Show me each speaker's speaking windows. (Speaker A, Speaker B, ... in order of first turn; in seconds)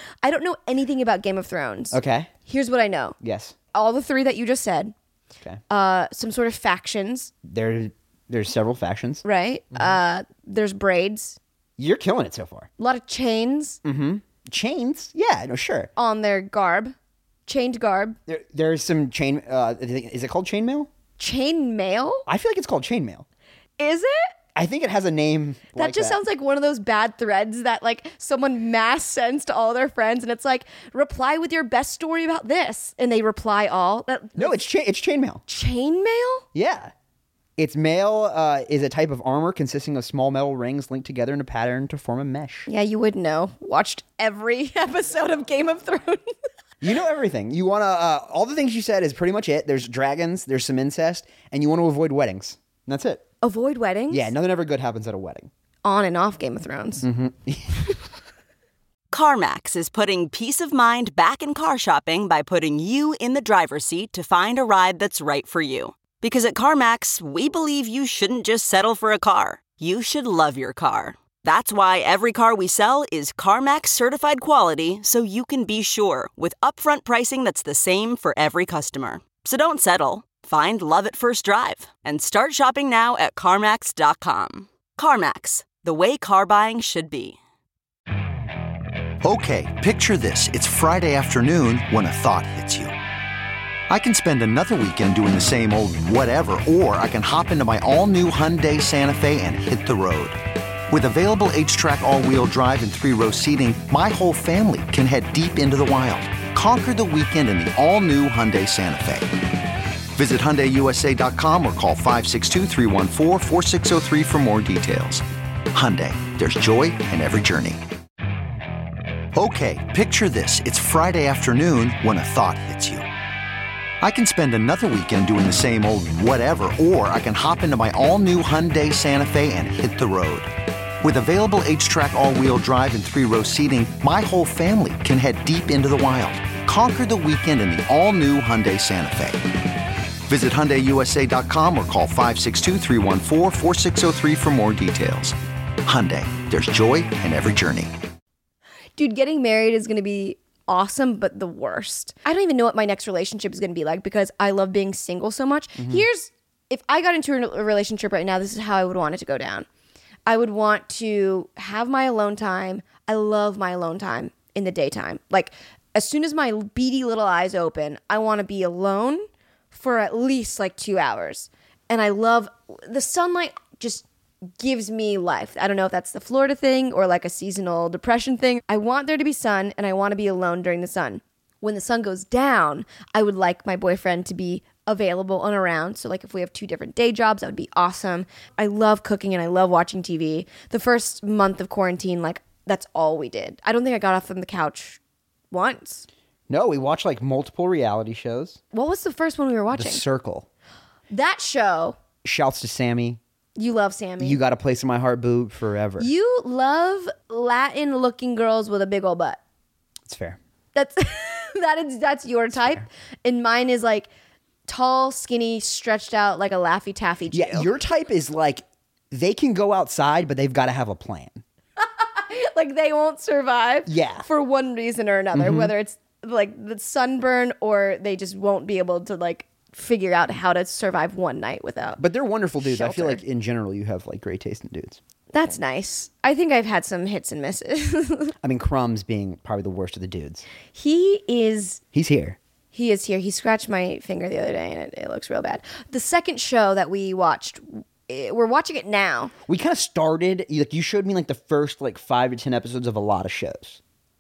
Speaker A: 0.2-3.2, 3.7-4.9, 5.7-7.3, 9.2-11.4, 12.8-13.8, 16.0-16.9, 17.5-18.2, 21.2-22.3, 23.8-24.3, 25.8-34.6, 35.5-36.5, 42.7-46.3, 53.4-54.3, 55.8-57.1, 149.0-159.7, 160.3-174.1, 174.6-195.0, 195.5-196.1, 198.7-200.0, 201.1-202.0, 203.6-204.4, 206.0-209.4, 210.8-214.1, 214.7-217.7, 221.8-232.0, 232.6-233.2, 235.3-238.3, 240.7-241.8, 242.7-249.3
Speaker B: 1.9-2.3, 3.2-3.5, 7.4-10.0, 11.8-12.7, 13.8-15.9, 18.3-20.9, 22.3-23.2, 24.6-26.2, 34.4-35.4, 36.5-36.9, 37.6-42.7, 46.8-53.2, 54.1-55.5, 57.0-57.9, 155.8-156.1, 196.5-198.6, 199.7-200.5, 202.2-203.2, 204.2-206.1, 210.1-210.4, 212.6-212.8, 217.3-221.4, 223.9-224.3, 225.3-225.7, 232.0-235.0, 238.4-240.4, 241.9-242.4, 249.5-253.8
Speaker C: 59.1-87.4
Speaker D: 89.2-92.9, 93.9-100.4, 100.9-109.3, 110.2-117.8, 119.3-123.0, 124.0-130.5, 131.0-139.4, 140.3-147.9